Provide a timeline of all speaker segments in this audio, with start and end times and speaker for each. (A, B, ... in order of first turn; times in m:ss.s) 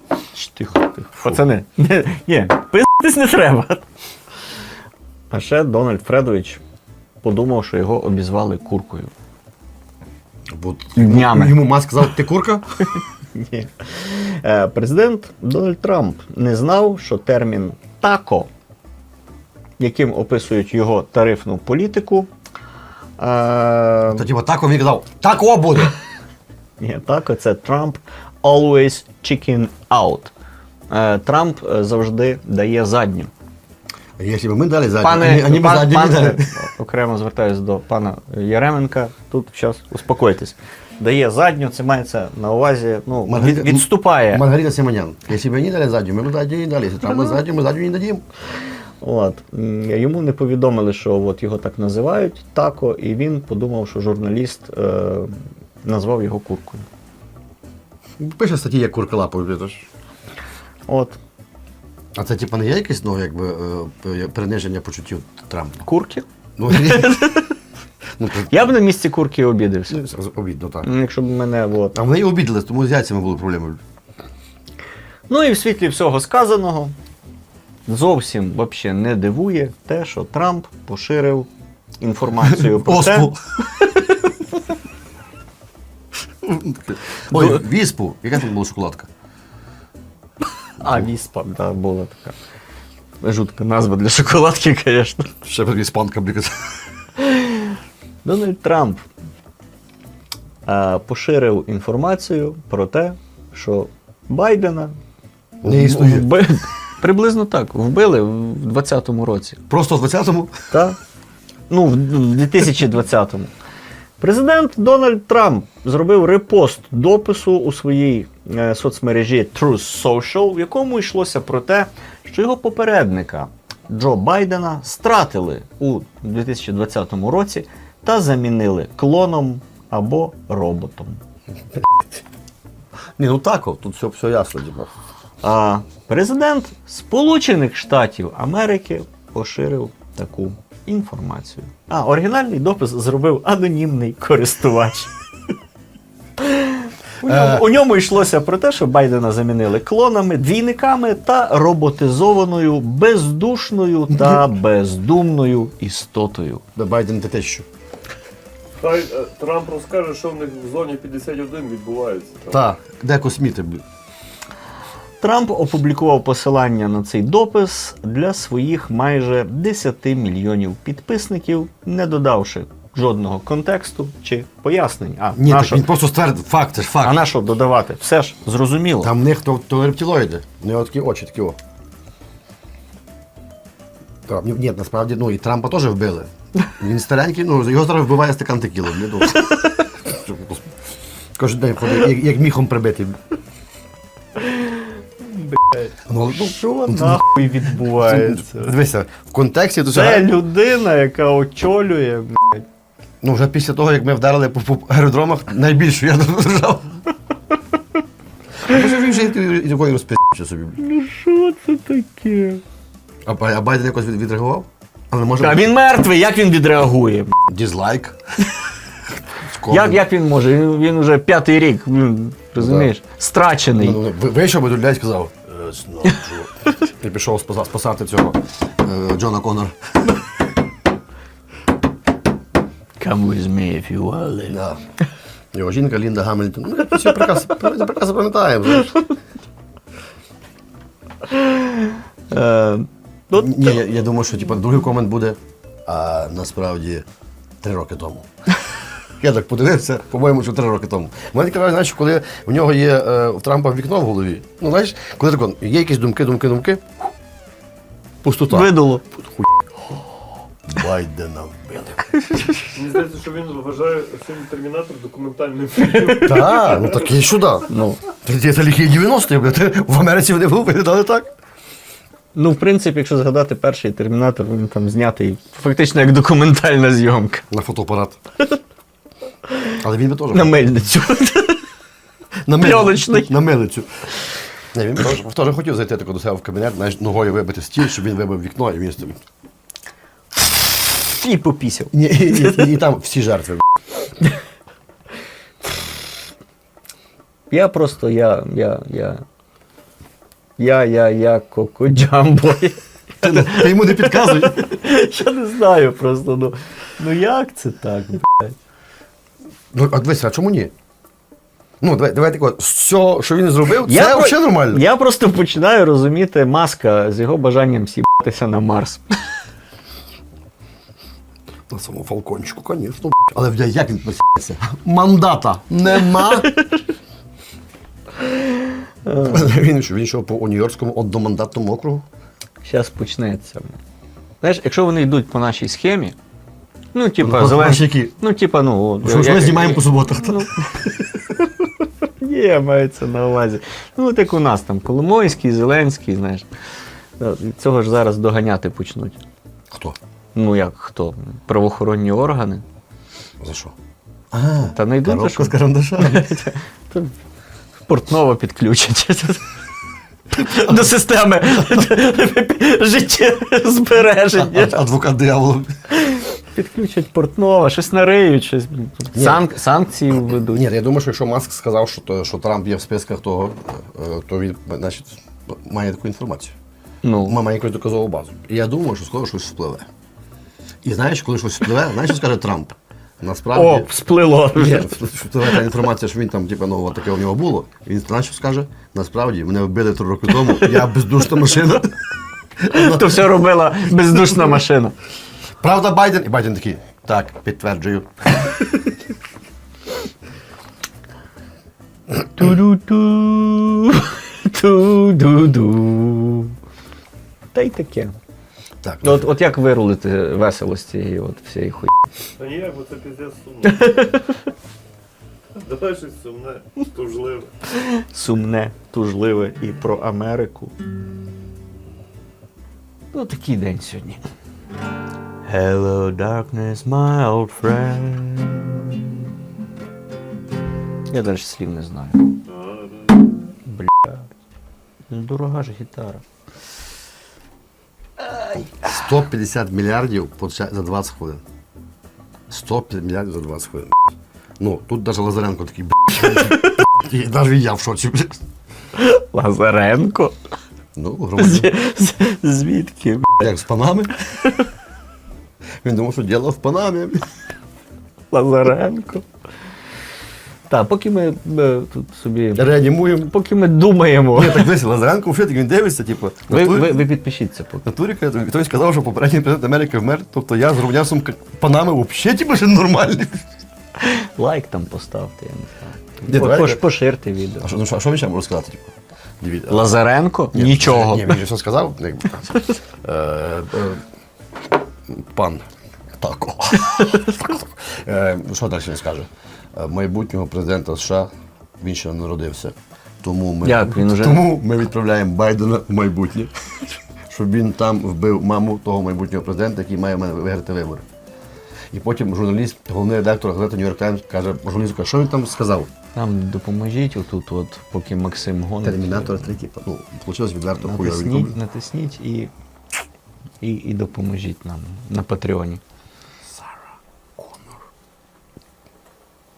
0:00.3-0:03.8 A
0:05.3-0:06.6 A
0:07.2-0:09.1 A
0:10.5-0:12.6 B
0:11.0-0:11.6 A
0:13.3-0:18.5 A
0:19.8-0:22.3 A
0:23.2-0:24.2 A
0:24.1-0:25.9 B
0:26.8-0:30.3 A
0:30.9-0:33.3 A
0:34.2-0:36.5 B
0:35.0-0:44.4 A
0:43.3-0:48.2 B
0:49.0-0:56.9 A
0:58.2-0:59.9 B
1:00.9-1:01.2 A
1:02.2-1:05.9 B
1:05.9-1:07.5 A
1:06.6-1:07.2 B
1:08.2-1:08.7 B
1:08.4-1:10.0 A
1:09.9-1:10.9 B
1:10.8-1:12.0 A
1:11.9-1:13.8 B
1:15.3-1:16.9 A
1:17.9-1:21.5 A
1:22.0-1:24.4 A
1:22.5-1:23.4 B
1:26.4-1:29.1 B
1:27.3-1:27.6 A
1:30.8-1:32.4 A
1:30.8-1:31.1 B
1:33.2-1:35.4 A
1:35.4-1:36.8 B
1:37.2-1:39.0 A
1:40.7-1:45.0 A
1:45.6-1:46.3 B
1:45.6-1:49.6 A
1:49.7-1:50.6 B
1:50.7-1:51.0 A
1:51.7-1:53.5 A
1:54.2-2:11.2 A
2:13.2-2:14.9 B
2:15.4-2:25.1 A
2:26.4-2:36.6 A
2:27.2-2:27.7 B
2:36.8-2:37.7 B
2:38.8-2:42.6 C
2:42.5-2:43.8 B
2:45.2-2:55.9 A
2:55.4-2:57.2 B
2:57.0-2:59.1 A
2:59.0-3:01.6 B
3:04.3-3:10.7 B
3:11.4-3:13.2 B
3:14.4-3:14.8 A
3:15.4-3:18.7 A
3:16.1-3:20.4 B
3:19.9-3:22.7 A
3:23.2-3:27.0 B
3:28.6-3:30.8 B
3:30.8-3:32.6 A
3:33.3-3:35.7 B
3:35.4-3:37.4 A
3:37.5-3:38.2 B
3:39.4-3:40.0 B
3:39.7-3:44.0 A
3:42.6-3:42.9 B
3:43.8-3:50.2 B
3:53.0-3:54.6 A
3:54.5-3:54.8 B
3:55.5-3:59.0 B
4:01.3-4:03.7 A
4:03.3-4:07.1 B
4:07.6-4:08.3 B
4:09.2-4:16.8 B
4:18.2-4:19.5 B
4:18.5-4:19.0 A
4:20.7-4:22.1 B
4:22.8-4:26.9 C
4:26.0-4:26.3 A
4:26.1-4:31.3 B
4:27.7-4:28.0 A
4:32.4-4:37.5 A
4:37.5-4:38.2 B
4:39.8-4:40.6 B
4:40.3-4:41.6 A
4:42.5-4:43.9 B
4:42.5-4:43.3 A
4:44.7-4:49.2 B
4:51.0-4:52.8 A
4:51.9-4:53.7 B
4:57.5-4:59.2 A
5:00.6-5:08.6 A
5:03.2-5:04.7 B
5:09.7-5:10.7 B
5:11.8-5:14.8 B
5:13.8-5:19.2 A
5:21.7-5:26.5 B
5:26.4-5:26.8 A
5:28.2-5:29.5 A
5:29.2-5:32.1 B
5:32.6-5:33.8 A
5:34.4-5:36.2 A
5:36.9-5:40.5 A
5:37.2-5:38.1 B
5:39.0-5:40.6 B
5:42.2-5:46.5 A
5:47.2-5:49.2 A
5:49.7-5:50.0 B
5:50.4-5:52.6 A
5:53.4-5:53.8 B
5:54.3-5:56.4 B
5:54.7-5:57.1 A
5:57.9-5:59.4 A
6:00.3-6:04.8 A
6:00.5-6:00.8 B
6:04.4-6:05.7 B
6:05.9-6:10.6 A
6:09.1-6:09.5 B
6:10.1-6:16.6 B
6:17.0-6:17.4 A
6:17.3-6:19.9 B
6:20.8-6:23.9 B
6:23.5-6:24.9 A
6:24.5-6:32.0 B
6:30.5-6:30.8 A
6:32.6-6:33.2 B
6:32.7-6:35.0 A
6:35.6-6:38.4 B
6:42.2-6:46.5 A
6:47.5-6:48.2 A
6:48.8-6:49.3 B
6:49.0-6:51.9 A
6:52.4-6:54.1 C
6:53.7-6:54.3 A
6:55.6-6:57.5 C
6:57.7-7:00.7 A
7:03.1-7:04.2 A
7:05.5-7:09.2 A
7:11.1-7:12.3 A
7:13.7-7:14.3 A
7:15.1-7:16.2 A
7:18.4-7:18.7 A
7:18.8-7:21.4 B
7:22.5-7:28.4 B
7:26.2-7:26.6 A
7:29.0-7:30.4 A
7:31.0-7:31.7 B
7:31.4-7:33.5 A
7:33.4-7:34.1 B
7:35.8-7:37.3 B
7:38.3-7:39.2 A
7:40.7-7:42.7 A
7:42.6-7:43.3 B
7:43.2-7:44.7 A
7:44.4-7:47.1 B
7:46.5-7:47.8 A
7:47.8-7:53.5 B
7:54.0-7:57.7 A
7:56.3-7:56.8 B
7:57.6-7:59.9 B
7:59.7-8:01.4 A
8:00.5-8:04.0 B
8:05.1-8:05.6 B
8:06.2-8:11.3 B
8:11.8-8:16.5 B
8:13.6-8:14.4 A
8:17.3-8:21.0 B
8:21.9-8:25.9 B
8:26.2-8:29.5 A
8:28.8-8:31.6 B
8:30.8-8:32.5 A
8:33.6-8:35.8 A